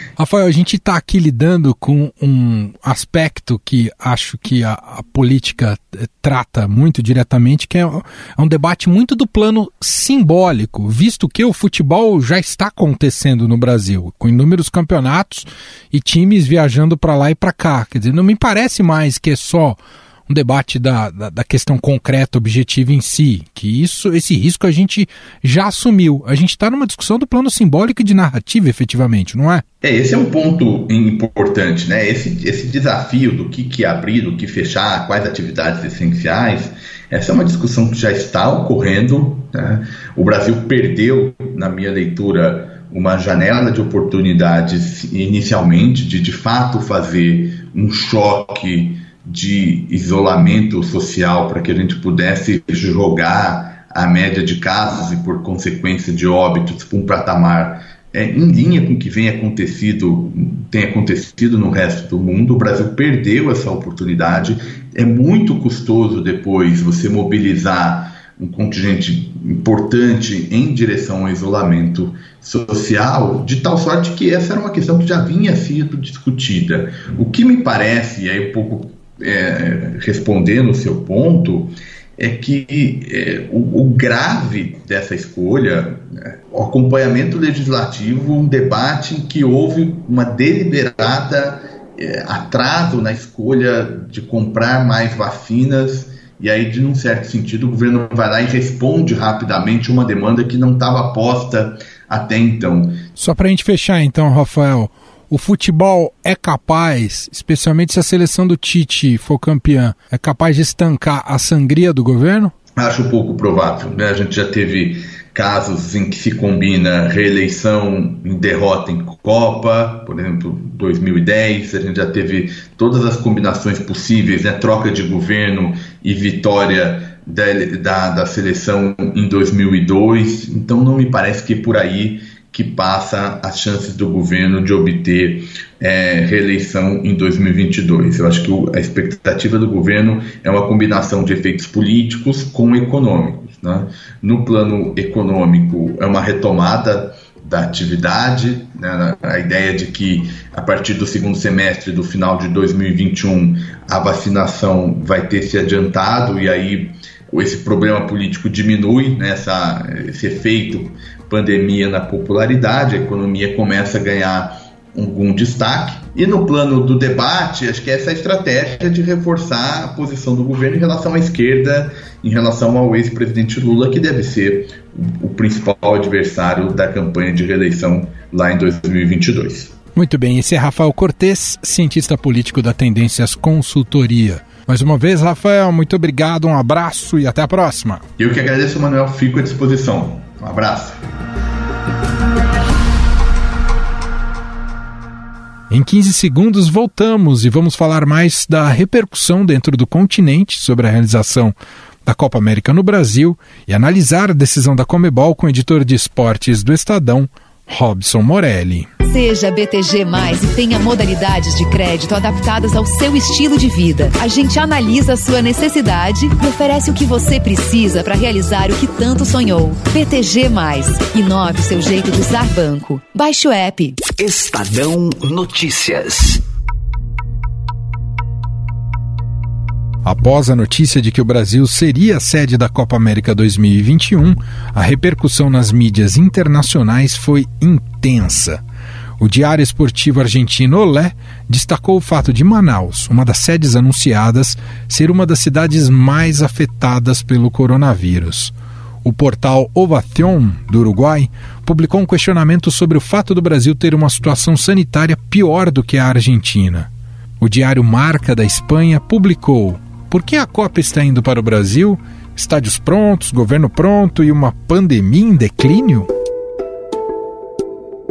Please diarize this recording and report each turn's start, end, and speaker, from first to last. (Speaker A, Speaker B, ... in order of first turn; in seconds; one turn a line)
Speaker A: 0.2-29.6
Speaker B: 29.8-103.0
Speaker A: 103.2-112.5
Speaker B: 112.8-179.8
Speaker A: 179.9-188.0
Speaker B: 188.2-191.0
Speaker A: 195.7-208.9
Speaker C: 209.1-224.0
Speaker D: 224.1-226.4
Speaker A: 230.1-238.6
Speaker A: 239.2-266.1